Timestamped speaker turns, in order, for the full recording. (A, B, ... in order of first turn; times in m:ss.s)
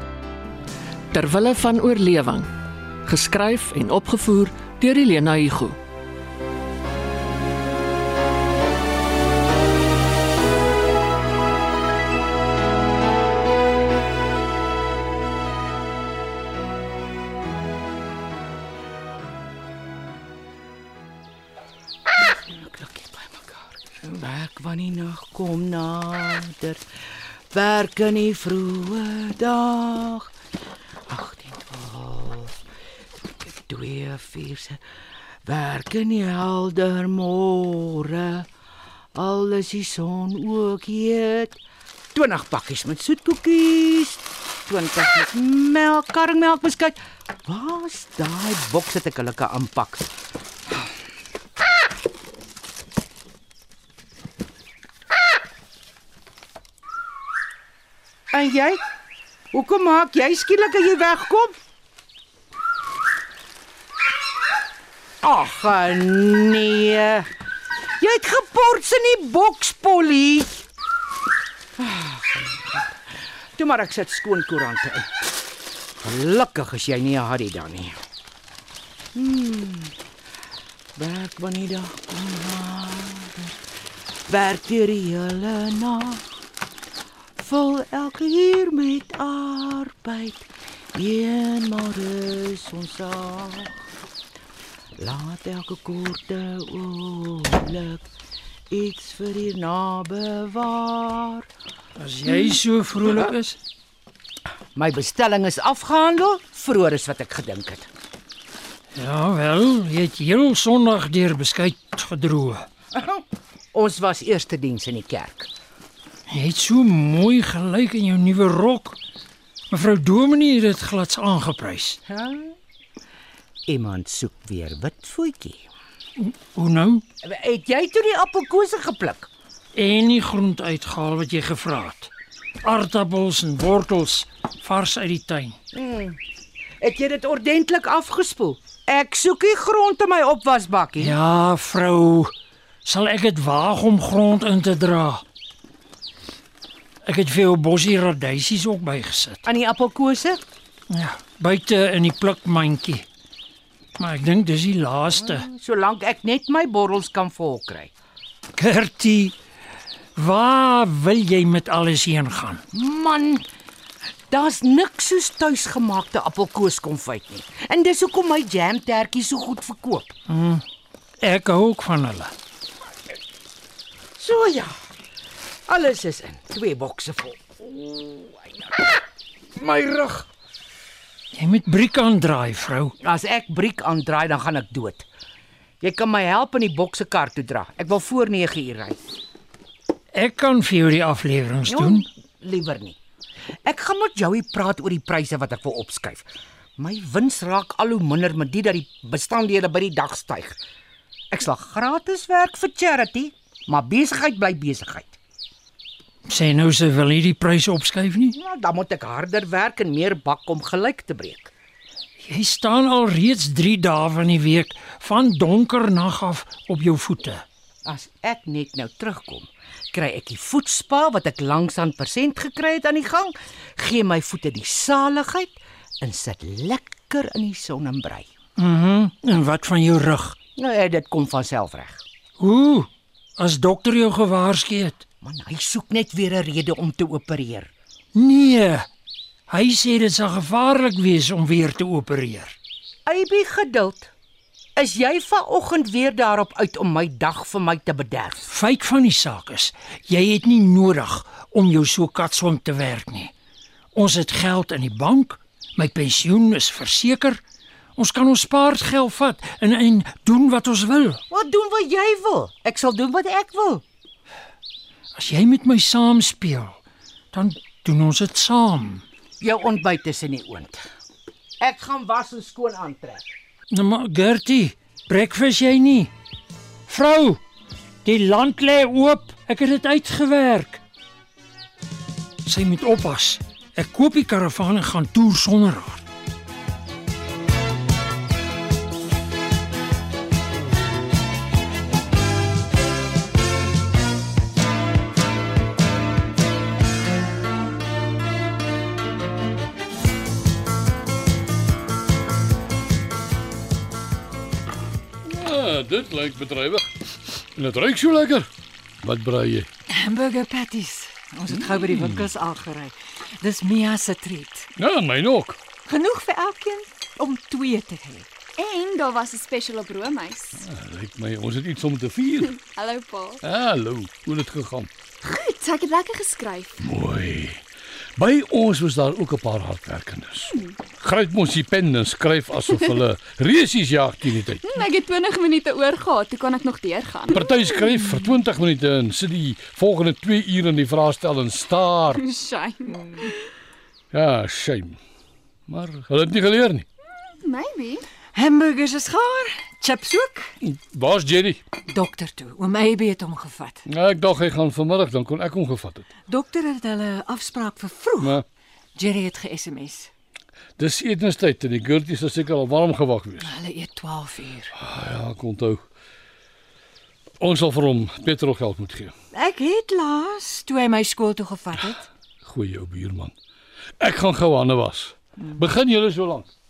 0:01.1-0:02.5 A
0:03.0-0:05.8 A
0:22.2-0:26.8 B
0:27.5-0:30.3 B
0:31.1-0:32.5 B
0:33.4-0:34.8 B
0:35.5-0:38.5 B
0:39.2-0:41.6 B
0:42.1-0:50.1 B
0:58.3-0:58.8 B
0:59.5-1:01.6 B
1:05.2-1:07.3 B
1:08.0-1:10.6 B
1:11.8-1:13.0 B
1:13.6-1:15.1 B
1:16.0-1:18.0 B
1:19.2-1:19.9 B
1:21.0-1:23.6 B
1:24.3-1:26.3 B
1:27.4-1:33.8 B
1:35.0-1:38.1 B
1:38.7-1:41.5 B
1:42.0-1:43.6 C
1:44.8-1:47.9 B
1:49.0-1:52.7 C
1:52.9-1:53.2 B
1:53.7-1:55.5 B
1:56.3-1:59.0 C
1:59.7-2:02.0 C
2:02.1-2:02.6 B
2:03.7-2:05.7 B
2:06.2-2:07.0 C
2:07.2-2:09.3 B
2:09.8-2:12.1 C
2:12.6-2:15.6 C
2:15.7-2:16.2 B
2:16.8-2:21.2 B
2:21.0-2:22.3 C
2:22.8-2:25.2 C
2:27.0-2:29.4 C
2:29.4-2:30.4 B
2:30.9-2:33.1 C
2:34.0-2:35.5 C
2:35.1-2:37.9 B
2:38.6-2:39.4 C
2:40.2-2:42.6 C
2:42.7-2:43.4 B
2:44.3-2:50.1 B
2:50.3-2:50.6 C
2:51.2-2:52.3 C
2:54.2-2:54.7 B
2:55.7-2:59.0 B
2:59.6-3:00.3 B
3:01.3-3:02.9 C
3:03.0-3:05.0 B
3:05.8-3:09.0 B
3:10.1-3:12.1 C
3:11.7-3:13.0 B
3:13.6-3:20.6 B
3:21.3-3:25.2 B
3:26.3-3:28.4 C
3:28.3-3:31.5 B
3:32.2-3:37.4 C
3:37.8-3:48.3 B
3:48.6-3:50.4 C
3:50.6-3:52.0 B
3:52.4-3:55.0 C
3:55.2-3:57.7 B
3:58.2-3:58.9 C
3:59.5-4:02.6 C
4:03.1-4:04.1 B
4:04.8-4:08.4 B
4:08.5-4:13.3 C
4:13.9-4:17.4 C
4:18.0-4:21.2 C
4:21.3-4:23.8 B
4:25.1-4:26.8 C
4:27.3-4:29.0 C
4:29.4-4:30.8 B
4:31.6-4:33.3 B
4:33.7-4:36.1 C
4:36.9-4:37.4 C
4:38.0-4:40.8 C
4:42.4-4:46.1 C
5:05.2-5:08.5 D
5:09.0-5:09.7 D
5:09.9-5:14.7 E
5:11.5-5:12.3 D
5:14.8-5:15.6 D
5:15.9-5:18.3 E
5:18.6-5:20.6 F
5:20.6-5:22.6 D
5:22.6-5:23.4 F
5:23.4-5:24.9 D
5:25.2-5:26.8 F
5:26.8-5:27.6 D
5:28.2-5:34.8 D
5:34.6-5:37.5 F
5:37.3-5:42.2 D
5:42.1-5:43.4 F
5:44.1-5:45.0 D
5:45.7-5:46.8 D
5:47.4-5:48.0 F
5:48.4-5:50.5 E
5:50.6-5:51.6 D
5:51.9-5:53.8 E
5:53.9-5:56.1 D
5:56.3-5:58.4 E
5:59.0-6:00.1 E
6:00.8-6:03.5 D
6:03.4-6:04.7 E
6:04.8-6:05.9 D
6:07.4-6:09.1 D
6:09.3-6:12.1 E
6:12.4-6:13.3 D
6:14.0-6:16.5 D